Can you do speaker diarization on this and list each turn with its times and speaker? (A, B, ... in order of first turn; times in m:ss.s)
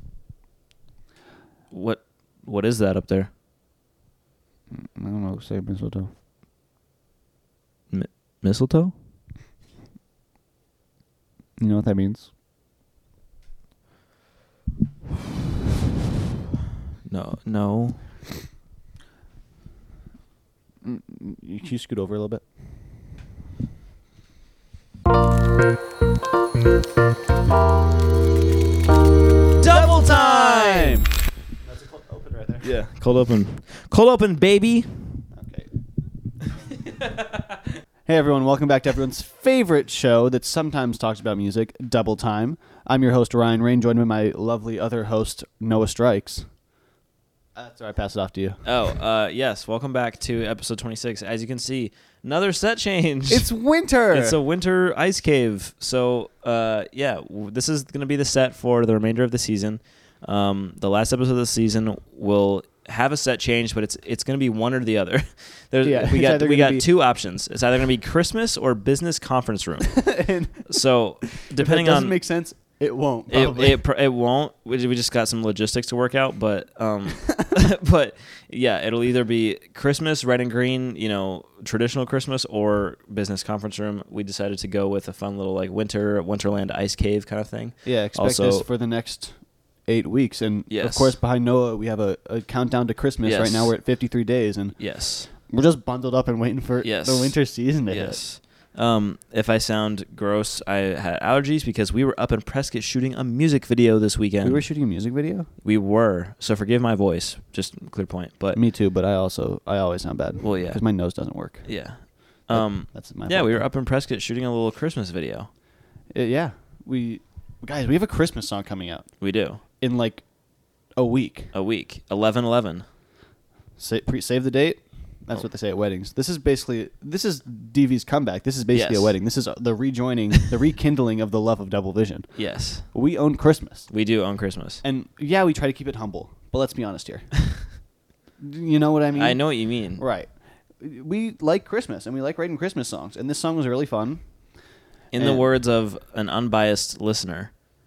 0:01.7-0:03.3 A
0:04.7-0:06.1 B
0:07.9-0:08.9 A
0:11.6-0:12.3 B
0:17.1-0:18.0 A
0:20.8-0:22.4 B
0:29.6-0:31.0 A
0:29.7-0:32.7 B
0:32.6-0:35.2 A
0:35.3-0:35.7 B
0:38.0-0:46.5 B
0:47.6-0:48.6 B
0:48.6-0:53.5 A
0:53.3-0:54.4 B
0:54.1-1:10.0 A
1:05.8-1:06.9 B
1:09.9-1:10.6 B
1:10.6-1:12.2 A
1:11.5-1:13.8 B
1:13.3-1:28.7 A
1:27.8-1:38.2 B
1:30.7-1:31.2 A
1:33.2-1:33.7 A
1:34.8-1:35.3 A
1:36.8-1:44.6 A
1:44.4-1:45.5 B
1:45.6-1:48.6 A
1:48.5-1:51.7 B
1:50.4-1:50.8 A
1:51.6-1:55.5 A
1:52.5-1:53.6 B
1:56.1-1:59.2 B
1:59.2-1:59.6 A
1:59.7-2:00.2 B
2:00.9-2:01.5 B
2:01.5-2:02.8 A
2:03.8-2:13.9 B
2:08.7-2:09.1 A
2:12.4-2:12.8 A
2:13.9-2:14.8 A
2:14.8-2:17.5 B
2:18.4-2:24.2 B
2:19.1-2:20.0 A
2:25.1-2:27.5 A
2:25.2-2:25.4 B